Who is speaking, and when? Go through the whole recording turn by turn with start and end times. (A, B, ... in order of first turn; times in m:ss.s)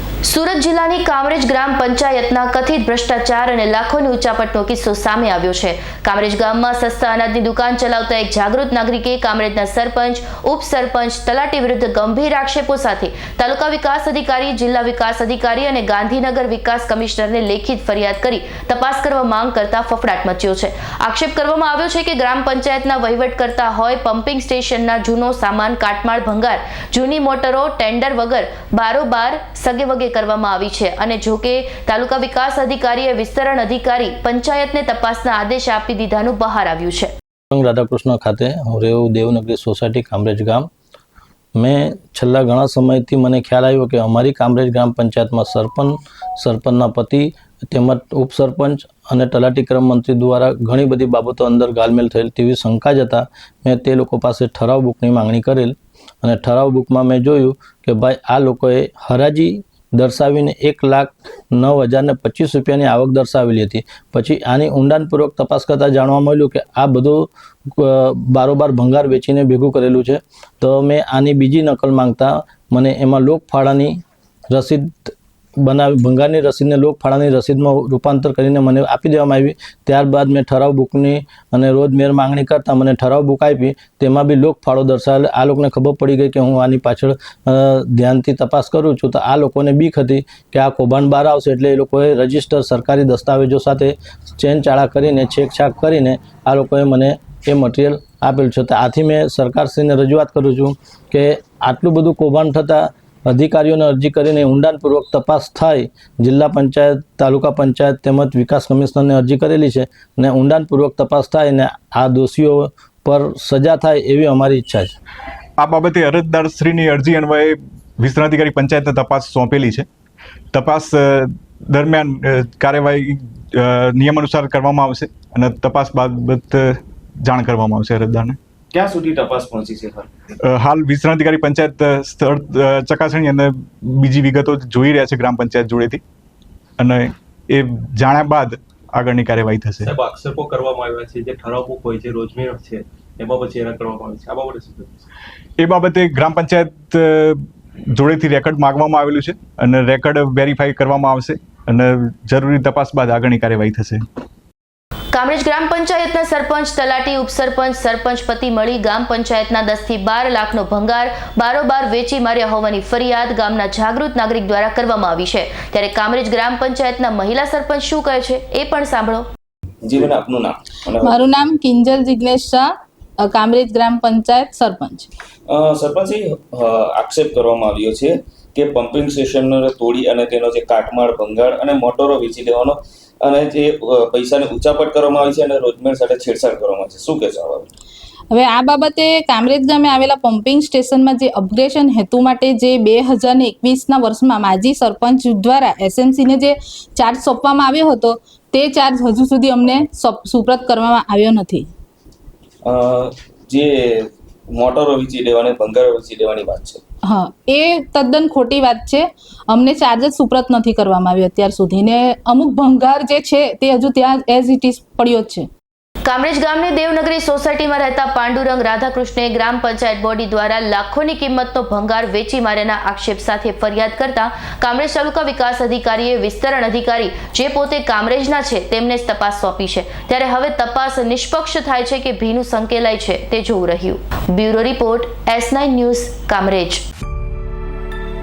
0:00.2-0:37.1 A
0:37.5-0:40.7 B
0:41.6-1:14.0 B
1:14.5-1:54.9 B
1:55.6-1:59.9 C
2:00.5-2:08.4 C
2:08.7-2:10.1 D
2:10.4-2:16.0 C
2:16.8-2:19.9 C
2:19.8-2:25.0 E
2:25.6-2:27.4 C
2:27.9-2:34.0 C
2:35.1-2:49.3 A
2:49.8-2:51.3 D
2:51.0-2:55.1 F
2:55.5-3:07.7 D
3:08.3-3:21.7 F
3:22.6-3:26.8 D
3:27.0-3:35.5 F
3:36.0-3:56.8 A